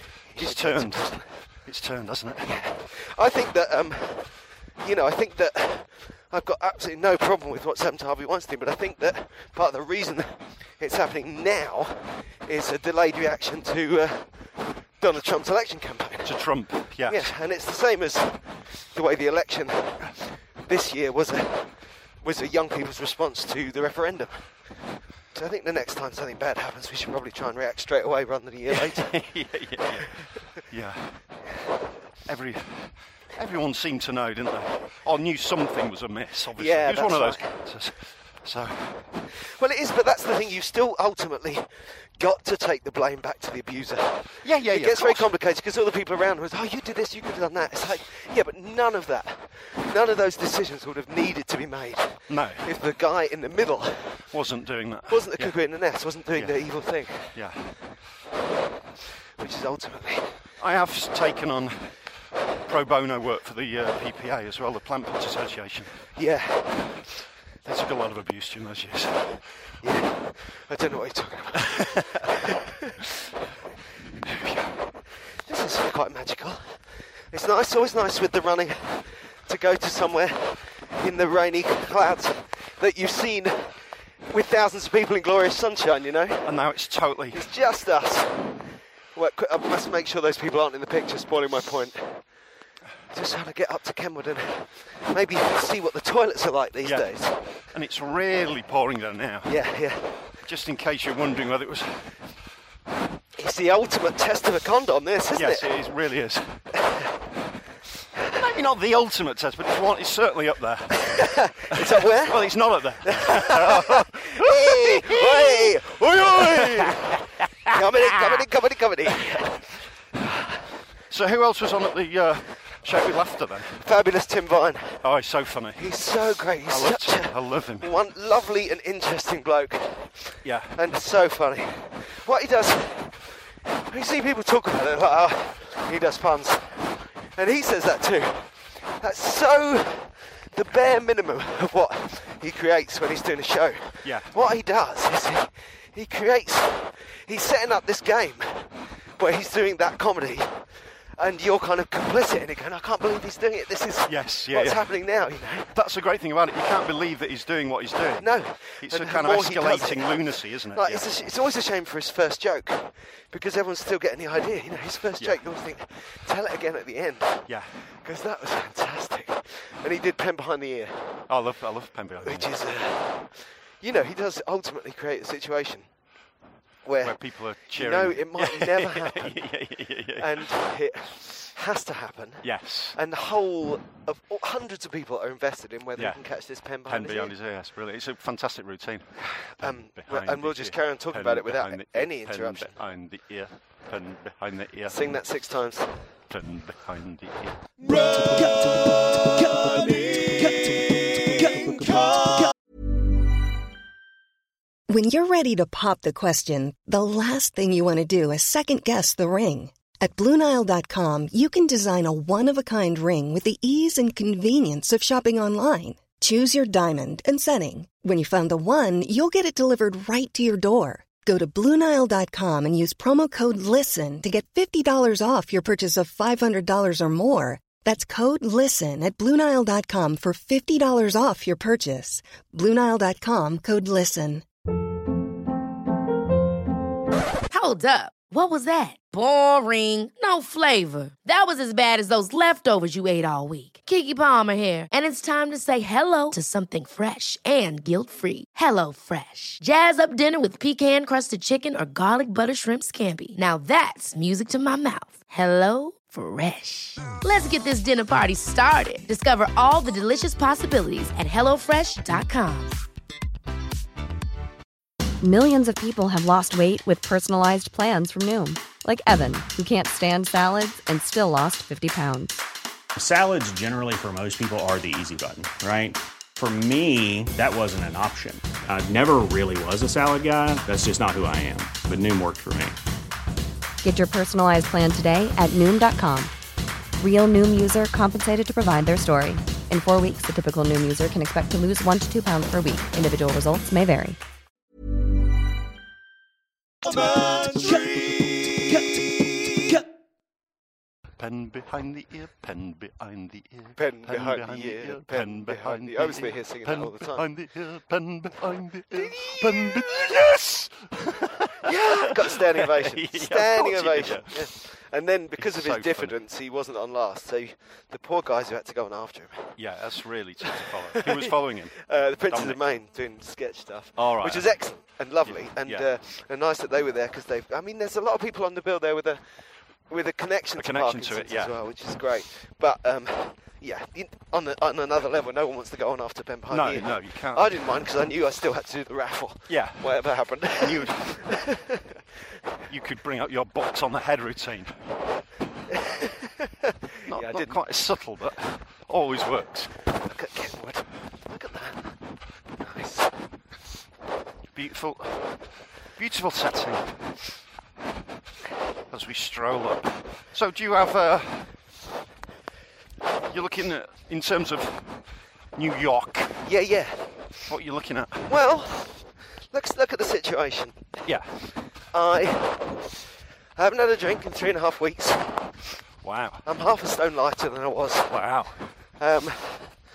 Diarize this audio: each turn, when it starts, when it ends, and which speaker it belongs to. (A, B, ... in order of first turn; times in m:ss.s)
0:00.3-0:01.3 A
0:00.3-0:02.6 B
0:02.4-0:14.3 A
0:15.0-0:16.3 A
0:16.2-0:17.3 B
0:17.1-0:18.4 A
0:18.9-0:24.5 A
0:25.3-0:29.1 A
0:28.7-0:31.1 B
0:32.3-0:39.0 B
0:36.6-0:37.5 A
0:39.6-0:54.2 A
0:44.4-0:45.3 B
0:52.3-0:52.7 B
0:54.3-0:55.6 B
0:55.1-0:57.3 A
0:56.4-0:56.6 B
0:57.3-0:57.7 B
0:59.4-1:00.4 A
1:00.6-1:01.9 B
1:02.6-1:06.0 B
1:06.2-1:07.0 A
1:07.6-1:09.4 B
1:09.8-1:13.0 A
1:11.6-1:12.3 B
1:14.0-1:14.8 B
1:15.5-1:16.6 A
1:17.3-1:23.8 A
1:24.3-1:26.5 A
1:26.4-1:27.4 B
1:27.3-1:28.5 A
1:29.1-1:32.2 A
1:33.1-1:37.4 A
1:36.8-1:37.1 B
1:37.7-1:39.5 B
1:39.5-1:40.2 A
1:40.4-1:42.1 B
1:43.4-1:45.7 A
1:45.4-1:46.6 B
1:46.8-1:47.1 A
1:48.2-1:58.4 B
1:51.0-1:52.5 A
1:53.0-1:59.6 A
2:00.2-2:00.5 A
2:01.1-2:03.8 B
2:03.8-2:05.0 A
2:05.0-2:05.9 B
2:05.8-2:13.2 A
2:06.7-2:07.9 B
2:10.4-2:10.8 B
2:13.9-2:30.6 A
2:24.0-2:24.3 B
2:31.2-2:35.7 A
2:34.1-2:34.9 B
2:35.7-2:41.1 B
2:38.2-2:40.2 A
2:40.8-2:47.5 A
2:47.5-2:47.7 B
2:48.0-2:51.2 A
2:51.3-2:52.5 B
2:52.2-2:55.9 A
2:56.8-2:57.1 A
2:57.0-3:00.6 B
2:57.7-2:59.4 A
3:00.2-3:07.3 A
3:02.4-3:03.0 B
3:06.0-3:06.2 B
3:06.9-3:15.2 B
3:09.2-3:12.8 A
3:14.9-3:16.0 A
3:16.3-3:18.0 B
3:18.0-3:18.7 A
3:19.3-3:22.5 A
3:24.9-3:54.4 C
3:57.5-4:22.8 D
4:25.2-4:32.4 E
4:33.0-4:42.8 F
4:43.8-4:46.3 E
4:47.0-4:54.2 E
4:57.3-4:57.6 A
4:58.6-4:59.1 A
5:01.2-5:14.4 B
5:03.8-5:07.3 A
5:08.9-5:09.9 A
5:11.6-5:19.6 A
5:15.4-5:16.2 B
5:19.6-5:22.6 B
5:20.5-5:29.2 A
5:24.0-5:24.6 B
5:25.2-5:25.9 B
5:29.9-5:41.9 A
5:30.6-5:31.6 B
5:36.5-5:37.6 B
5:39.5-5:39.9 B
5:40.4-5:41.1 B
5:42.7-5:44.8 B
5:45.7-5:47.6 A
5:47.1-5:49.7 B
5:50.1-5:51.9 A
5:52.6-5:53.1 A
5:54.6-5:55.4 B
5:56.0-5:56.9 B
5:58.9-6:01.5 B
6:03.3-6:05.0 B
6:05.6-6:06.4 B
6:06.5-6:07.1 A
6:07.5-6:08.3 B
6:08.3-6:11.0 A
6:11.9-6:12.8 A
6:13.6-6:15.5 A
6:16.0-6:16.4 B
6:16.4-6:18.2 A
6:18.1-6:18.6 B
6:19.0-6:19.7 A